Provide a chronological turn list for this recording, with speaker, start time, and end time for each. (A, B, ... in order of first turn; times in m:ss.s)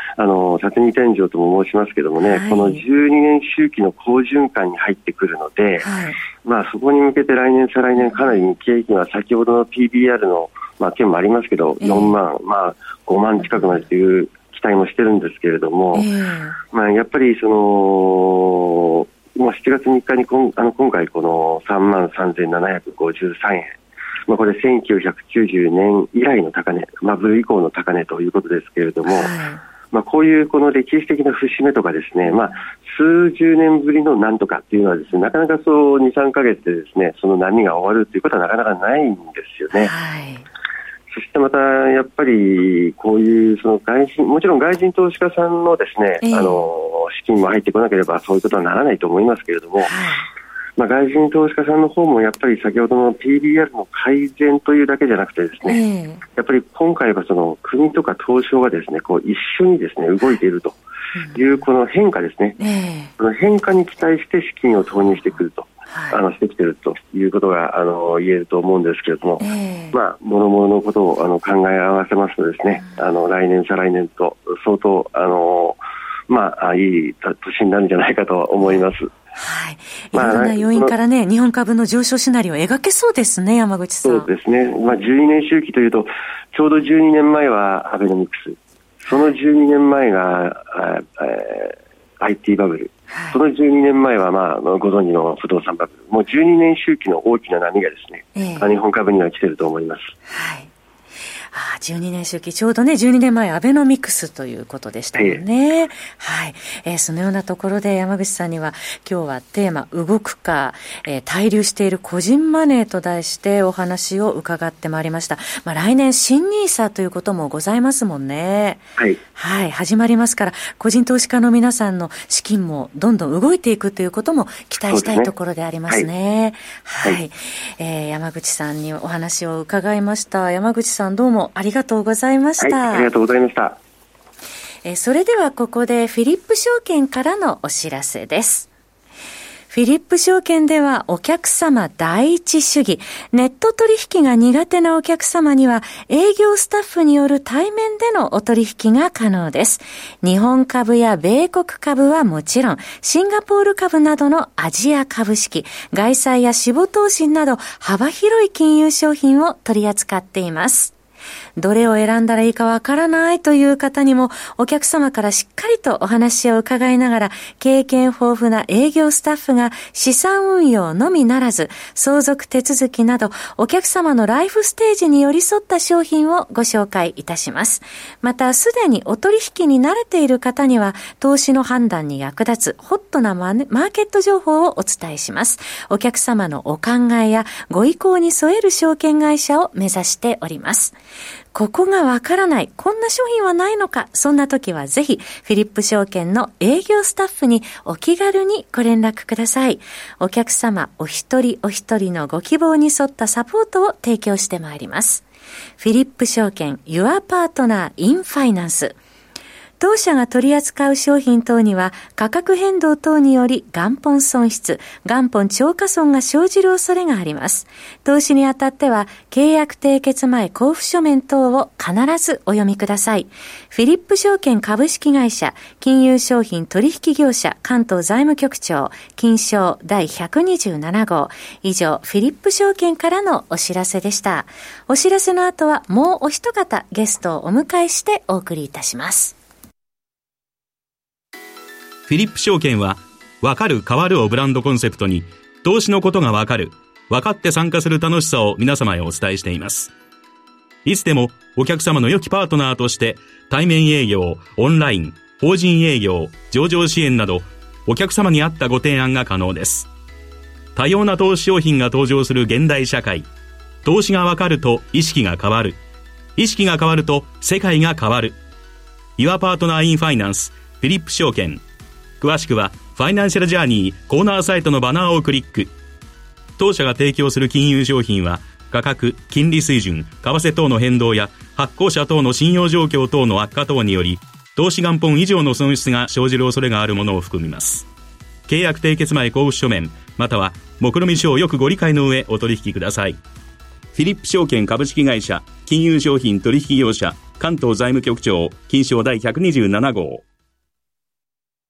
0:00.2-0:05.9 A
0:02.2-0:02.8 B
0:05.8-0:06.2 B
0:06.4-0:16.1 A
0:11.8-0:12.2 B
0:13.4-0:13.8 B
0:15.9-0:16.6 B
0:16.7-0:23.8 A
0:24.3-0:29.3 A
0:29.1-0:29.6 B
0:29.9-0:39.9 A
0:39.7-0:40.5 B
0:41.1-0:49.9 A
0:46.2-0:46.7 B
0:49.8-0:50.2 B
0:50.8-0:55.8 A
0:55.7-0:56.2 B
0:56.4-1:00.8 A
1:01.2-1:01.6 B
1:01.3-1:02.6 A
1:02.6-1:03.1 B
1:03.2-1:19.1 A
1:05.1-1:06.2 B
1:09.4-1:10.0 B
1:12.8-1:13.0 B
1:19.4-1:24.3 B
1:20.1-1:20.9 A
1:24.1-1:40.1 A
1:33.1-1:33.4 B
1:38.4-1:38.7 B
1:40.3-1:40.7 B
1:41.5-1:58.8 B
1:45.2-1:45.4 A
1:59.4-2:13.1 B
2:04.9-2:05.3 A
2:12.6-2:13.8 A
2:14.8-2:18.7 B
2:19.7-2:40.9 B
2:41.6-3:11.0 B
3:11.5-3:25.2 B
3:25.8-3:29.0 B
3:29.8-3:59.4 B
4:02.1-4:09.9 C
4:10.8-4:19.9 C
4:20.8-4:23.3 C
4:23.8-4:25.8 C
4:26.4-4:28.4 C
4:29.2-4:31.6 C
4:32.2-4:35.7 C
4:36.6-4:47.9 C
4:48.5-4:53.2 C
4:54.0-5:00.2 C